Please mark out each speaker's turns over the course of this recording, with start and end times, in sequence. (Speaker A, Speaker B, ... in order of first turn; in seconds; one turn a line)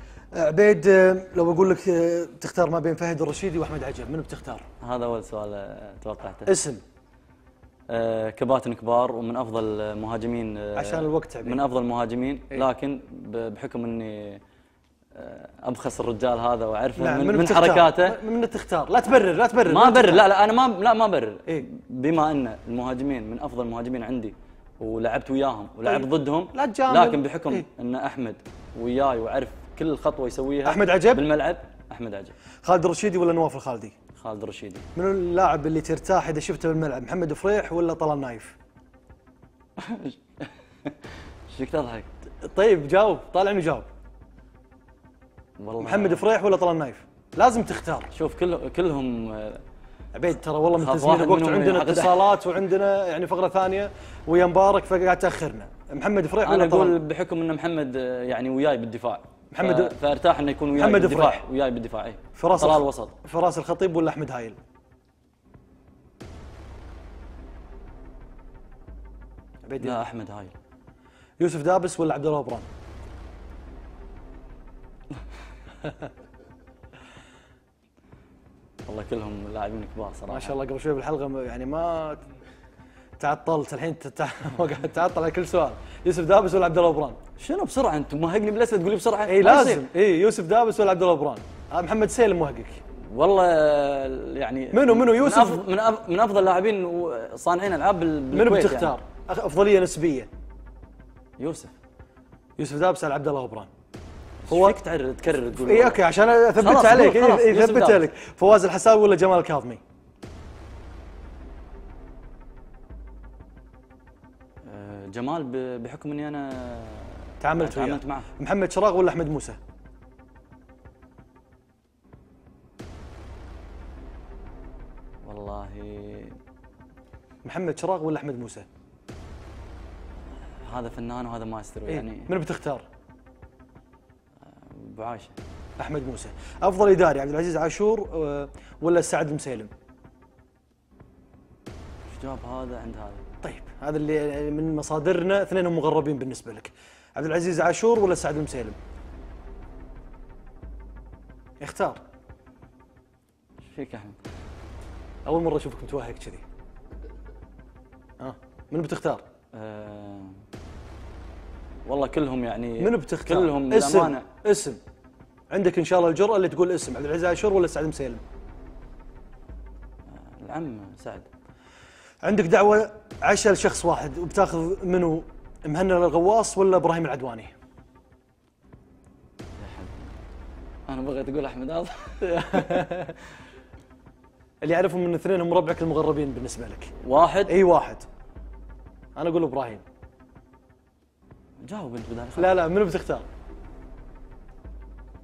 Speaker A: 0.3-4.7
Speaker B: 4.8-6.5
Speaker A: 6.5-6.8
Speaker B: 7.9-14.4
Speaker A: 10.8-11.6
Speaker B: 15.1-18.2
Speaker A: 16.9-20.2
Speaker B: 19.6-32.3
Speaker A: 25.8-27.7
Speaker A: 30.6-31.2
Speaker A: 32.6-33.9
Speaker B: 34.1-34.9
Speaker A: 35.0-38.5
Speaker B: 39.8-42.1
Speaker A: 42.4-43.9
Speaker B: 45.6-46.2
Speaker A: 45.8-48.1
Speaker B: 48.1-49.6
Speaker A: 50.1-57.0
Speaker B: 50.7-52.4
Speaker B: 56.4-63.1
Speaker A: 59.5-59.9
Speaker A: 60.7-61.4
Speaker A: 62.4-64.6
Speaker A: 69.6-70.0
Speaker B: 69.8-70.5
Speaker A: 71.4-72.7
Speaker B: 78.9-80.5
Speaker A: 80.3-82.2
Speaker A: 83.2-87.2
Speaker B: 87.4-89.8
Speaker A: 89.3-92.8
Speaker B: 93.1-99.0
Speaker A: 94.7-95.6
Speaker A: 98.3-100.3
Speaker B: 101.4-101.7
Speaker A: 102.6-103.7
Speaker B: 104.4-106.0
Speaker A: 104.5-104.8
Speaker A: 105.5-109.8
Speaker B: 106.5-108.1
Speaker B: 114.6-118.3
Speaker A: 117.4-119.6
Speaker B: 125.2-126.4
Speaker A: 127.4-128.7
Speaker B: 130.4-132.3
Speaker A: 131.9-132.8
Speaker B: 134.4-135.3
Speaker A: 135.8-139.7
Speaker B: 142.1-143.2
Speaker A: 143.4-148.8
Speaker A: 151.6-152.0
Speaker B: 153.6-154.2
Speaker A: 155.2-156.4
Speaker A: 158.2-159.2
Speaker B: 159.5-160.4
Speaker B: 161.8-164.3
Speaker A: 162.8-164.8
Speaker A: 165.5-168.2
Speaker B: 170.1-171.3
Speaker A: 172.2-177.5
Speaker B: 179.6-180.3
Speaker B: 180.9-182.9
Speaker A: 182.2-183.1
Speaker A: 184.6-186.9
Speaker B: 187.0-187.6
Speaker A: 187.5-188.1
Speaker A: 189.2-189.8
Speaker B: 191.6-192.6
Speaker A: 192.4-193.2